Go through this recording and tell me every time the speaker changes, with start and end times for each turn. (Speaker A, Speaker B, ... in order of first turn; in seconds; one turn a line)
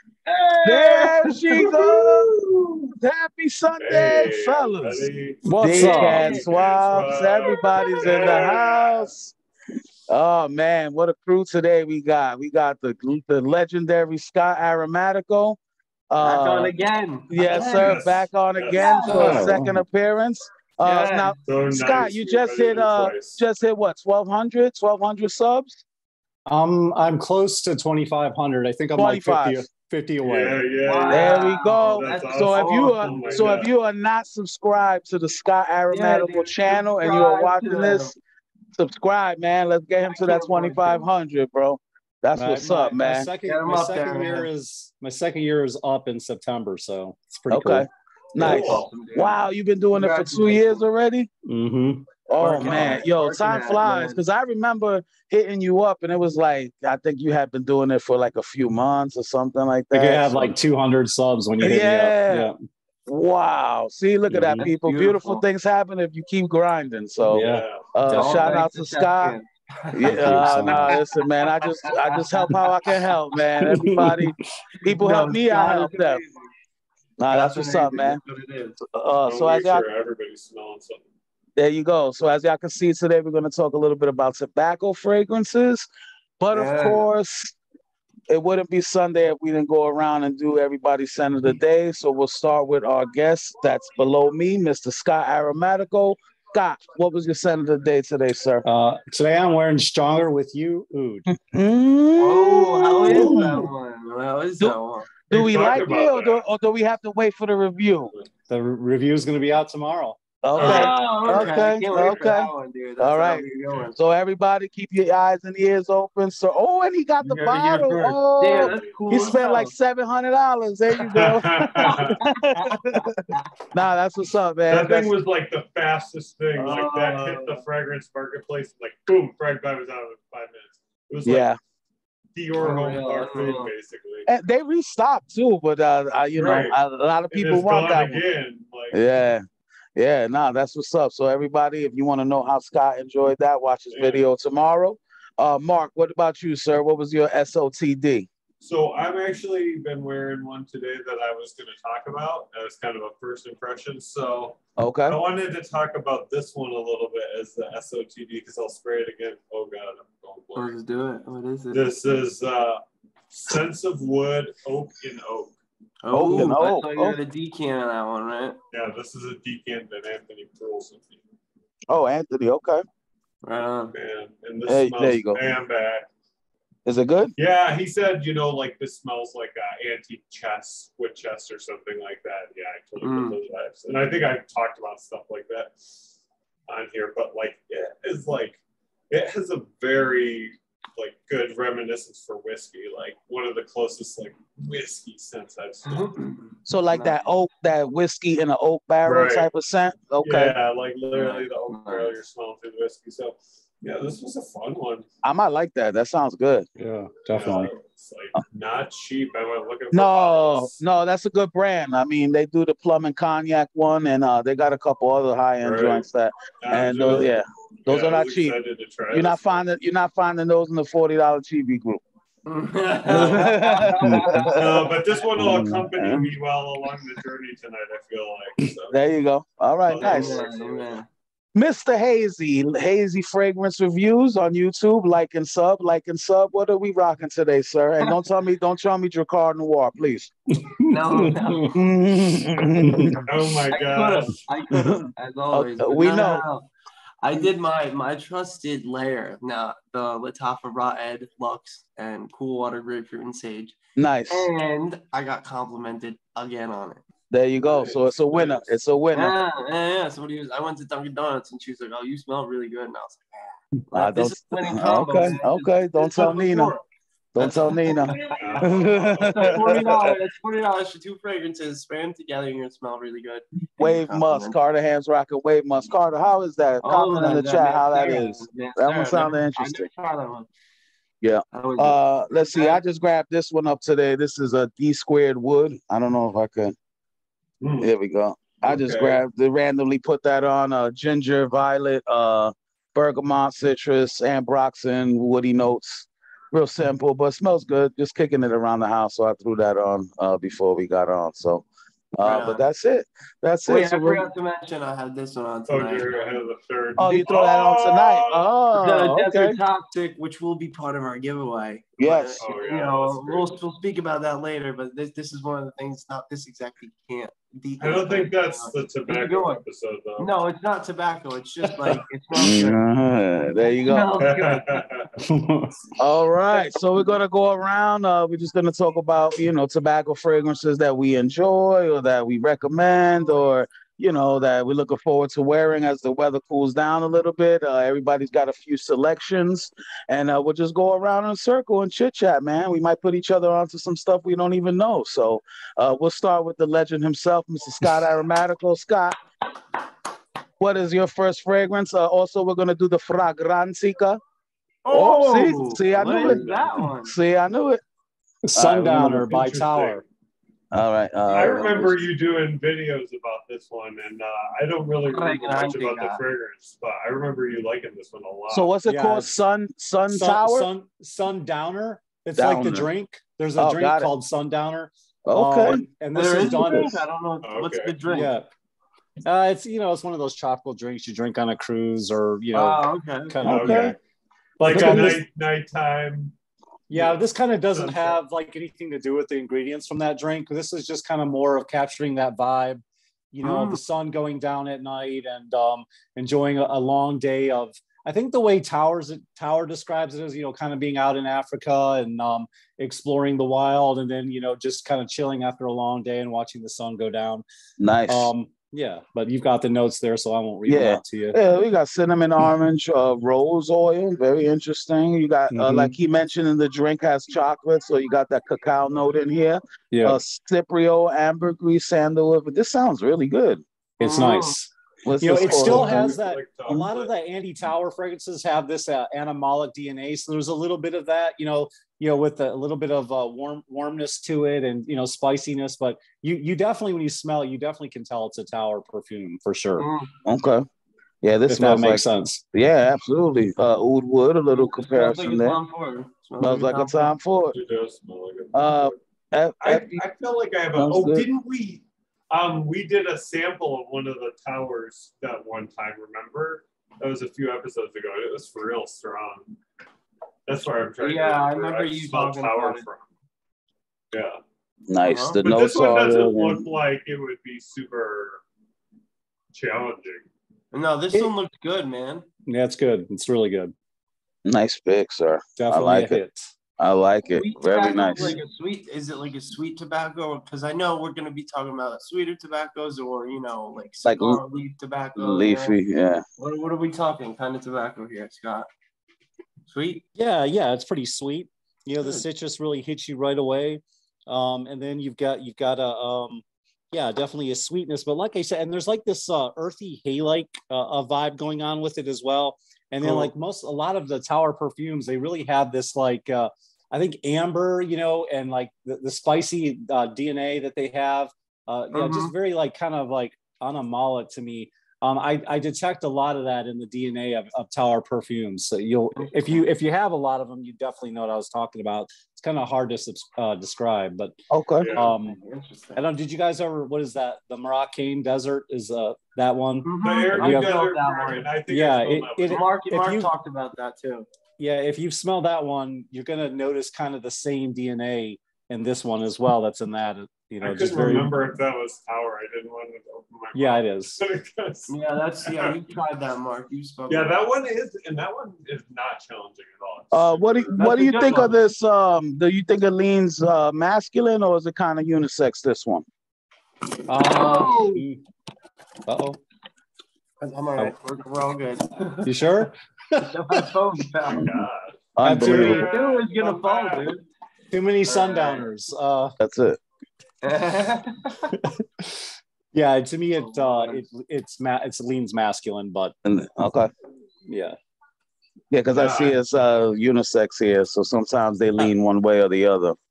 Speaker A: 0.2-2.7
Speaker B: 0.6-2.3
Speaker B: 2.9-9.3
Speaker C: 3.8-9.1
Speaker D: 5.4-6.4
Speaker A: 5.7-6.5
Speaker A: 7.8-8.3
Speaker B: 10.1-15.6
Speaker B: 16.1-16.7
Speaker A: 16.2-18.0
Speaker B: 17.3-25.8
Speaker C: 17.6-19.1
Speaker A: 18.7-19.5
Speaker D: 19.0-19.8
Speaker A: 20.8-21.4
Speaker C: 21.4-23.4
Speaker D: 26.5-30.6
Speaker B: 28.9-29.7
Speaker C: 30.2-33.7
Speaker A: 30.8-33.6
Speaker B: 31.1-38.1
Speaker A: 35.9-38.1
Speaker B: 38.7-43.3
Speaker A: 40.1-41.0
Speaker D: 42.3-47.9
Speaker A: 43.4-44.5
Speaker B: 47.5-51.3
Speaker C: 48.4-49.0
Speaker A: 48.4-49.4
Speaker A: 49.9-50.8
Speaker D: 51.5-53.0
Speaker B: 52.3-60.6
Speaker A: 52.4-54.2
Speaker D: 59.9-62.5
Speaker B: 61.6-62.5
Speaker B: 63.0-69.3
Speaker D: 64.3-64.7
Speaker A: 64.6-65.4
Speaker D: 67.3-68.6
Speaker C: 67.3-67.8
Speaker A: 68.1-73.1
Speaker B: 69.9-76.2
Speaker D: 70.0-71.0
Speaker D: 73.6-74.3
Speaker A: 74.8-76.5
Speaker B: 77.2-78.2
Speaker A: 77.3-78.8
Speaker B: 78.9-79.8
Speaker C: 79.2-81.0
Speaker B: 81.5-85.9
Speaker B: 86.4-87.5
Speaker A: 86.5-87.0
Speaker B: 88.3-98.6
Speaker D: 98.6-101.3
Speaker B: 101.3-103.7
Speaker A: 102.2-105.1
Speaker B: 105.3-108.1
Speaker C: 105.3-106.4
Speaker D: 108.5-110.2
Speaker B: 110.4-125.1
Speaker C: 110.5-112.4
Speaker A: 110.6-114.0
Speaker A: 117.2-119.7
Speaker C: 118.4-119.3
Speaker C: 121.1-122.2
Speaker A: 121.8-123.5
Speaker C: 124.7-131.5
Speaker A: 126.5-127.6
Speaker B: 131.2-131.6
Speaker C: 132.3-134.3
Speaker A: 132.6-133.7
Speaker B: 134.3-138.2
Speaker C: 136.3-136.8
Speaker C: 137.3-139.0
Speaker B: 138.9-139.4
Speaker B: 139.9-148.3
Speaker C: 143.9-144.2
Speaker C: 148.6-160.7
Speaker B: 154.8-155.2
Speaker A: 160.5-161.9
Speaker C: 161.7-165.5
Speaker A: 166.0-168.6
Speaker B: 166.1-167.2
Speaker C: 168.7-171.2
Speaker B: 171.9-172.8
Speaker A: 173.4-173.9
Speaker C: 173.9-176.1
Speaker B: 174.7-175.4
Speaker B: 176.8-177.3
Speaker C: 177.4-186.1
Speaker A: 183.0-183.4
Speaker C: 186.7-196.2
Speaker A: 195.8-197.2
Speaker B: 196.7-200.5
Speaker C: 199.0-199.5
Speaker C: 200.2-205.1
Speaker A: 201.1-202.2
Speaker B: 205.2-206.7
Speaker D: 206.8-207.7
Speaker C: 207.3-210.8
Speaker B: 209.9-218.6
Speaker C: 215.6-216.0
Speaker C: 216.6-219.5
Speaker B: 219.1-222.0
Speaker A: 222.4-225.1
Speaker B: 223.1-224.9
Speaker C: 223.1-223.4
Speaker C: 224.5-229.0
Speaker D: 225.3-225.9
Speaker B: 225.8-226.3
Speaker B: 228.9-230.4
Speaker C: 229.9-230.9
Speaker A: 230.0-231.1
Speaker B: 231.5-240.3
Speaker D: 240.6-241.8
Speaker A: 240.9-241.8
Speaker B: 241.7-243.2
Speaker D: 242.8-243.2
Speaker C: 243.2-244.4
Speaker A: 243.7-246.7
Speaker B: 244.7-246.4
Speaker A: 247.2-253.8
Speaker B: 253.9-254.5
Speaker A: 254.3-257.0
Speaker B: 257.3-259.4
Speaker C: 257.6-258.7
Speaker A: 259.1-266.9
Speaker B: 263.9-266.7
Speaker B: 267.3-270.1
Speaker A: 267.4-274.6
Speaker C: 268.3-270.1
Speaker B: 273.8-279.9
Speaker A: 276.8-280.5
Speaker B: 281.2-286.7
Speaker A: 281.5-282.8
Speaker C: 287.6-287.9
Speaker B: 287.8-304.3
Speaker C: 288.6-289.2
Speaker A: 302.2-302.6
Speaker A: 303.7-306.4
Speaker C: 305.7-308.5
Speaker B: 307.0-309.6
Speaker A: 308.7-319.6
Speaker B: 312.0-312.4
Speaker C: 312.4-313.6
Speaker C: 317.8-320.3
Speaker A: 320.2-322.8
Speaker B: 322.3-324.1
Speaker A: 323.6-324.9
Speaker C: 324.2-325.1
Speaker D: 325.2-325.9
Speaker B: 326.0-349.2
Speaker A: 326.5-327.1
Speaker B: 350.6-354.2
Speaker A: 354.8-357.1
Speaker B: 354.9-356.4
Speaker C: 356.0-356.9
Speaker B: 357.0-357.8
Speaker D: 358.4-360.0
Speaker B: 358.5-359.3
Speaker C: 359.2-360.0
Speaker B: 360.7-362.0
Speaker C: 361.3-368.7
Speaker A: 365.1-366.2
Speaker B: 368.5-370.7
Speaker D: 368.9-369.3
Speaker D: 370.1-377.0
Speaker B: 372.3-372.9
Speaker B: 373.6-374.1
Speaker B: 375.2-375.8
Speaker A: 376.1-378.3
Speaker B: 376.4-376.9
Speaker C: 377.4-378.0
Speaker D: 378.1-378.5
Speaker D: 379.2-384.0
Speaker A: 382.5-383.4
Speaker C: 383.4-383.9
Speaker B: 383.4-383.9
Speaker D: 384.6-385.2
Speaker C: 384.6-386.3
Speaker B: 384.7-385.1
Speaker D: 386.9-407.4
Speaker C: 386.9-388.2
Speaker A: 393.4-393.8
Speaker B: 407.8-408.3
Speaker D: 408.1-411.4
Speaker B: 410.6-423.6
Speaker D: 415.5-415.9
Speaker D: 419.9-420.2
Speaker D: 424.0-439.9
Speaker A: 424.0-424.6
Speaker B: 425.0-426.1
Speaker C: 425.3-427.1
Speaker A: 439.8-440.1
Speaker B: 440.2-440.6
Speaker B: 441.2-445.6
Speaker D: 441.5-442.4
Speaker A: 444.5-447.1
Speaker B: 446.4-447.5
Speaker C: 447.5-449.0
Speaker B: 448.5-450.0
Speaker C: 449.6-459.5
Speaker B: 450.8-451.3
Speaker C: 460.5-463.1
Speaker A: 461.0-462.8
Speaker C: 464.1-464.4
Speaker B: 464.9-466.6
Speaker A: 465.0-465.4
Speaker C: 465.4-468.4
Speaker C: 469.5-470.3
Speaker A: 470.7-472.2
Speaker D: 472.4-473.7
Speaker B: 474.4-476.2
Speaker D: 475.6-476.5
Speaker B: 476.8-478.4
Speaker A: 477.3-485.8
Speaker B: 484.0-484.4
Speaker B: 485.1-486.2
Speaker A: 486.4-488.7
Speaker A: 489.7-490.0
Speaker D: 490.1-524.4
Speaker A: 492.0-492.2
Speaker A: 503.0-503.3
Speaker A: 511.9-512.3
Speaker A: 519.1-519.6
Speaker B: 524.5-524.9
Speaker C: 524.8-525.1
Speaker D: 524.9-525.4
Speaker A: 525.2-526.0
Speaker D: 525.9-530.9
Speaker A: 529.8-531.5
Speaker C: 530.0-532.6
Speaker D: 531.7-533.3
Speaker A: 532.5-534.2
Speaker D: 534.6-541.3
Speaker C: 540.6-544.9
Speaker D: 543.5-544.2
Speaker A: 544.9-547.4
Speaker C: 545.4-545.8
Speaker C: 547.1-550.8
Speaker B: 550.1-556.0
Speaker A: 550.8-551.5
Speaker D: 557.1-558.2
Speaker A: 557.2-558.0
Speaker D: 559.0-559.4
Speaker A: 560.4-562.3
Speaker D: 562.2-563.4
Speaker A: 563.2-564.6
Speaker C: 564.2-567.1
Speaker B: 565.1-565.9
Speaker D: 565.2-565.9
Speaker A: 565.8-567.2
Speaker D: 567.7-569.3
Speaker A: 568.0-568.7
Speaker B: 569.4-569.8
Speaker A: 570.4-571.5
Speaker D: 571.5-576.1
Speaker A: 573.4-574.0
Speaker B: 576.2-576.9
Speaker D: 577.5-577.8
Speaker B: 578.7-583.0
Speaker C: 578.9-579.4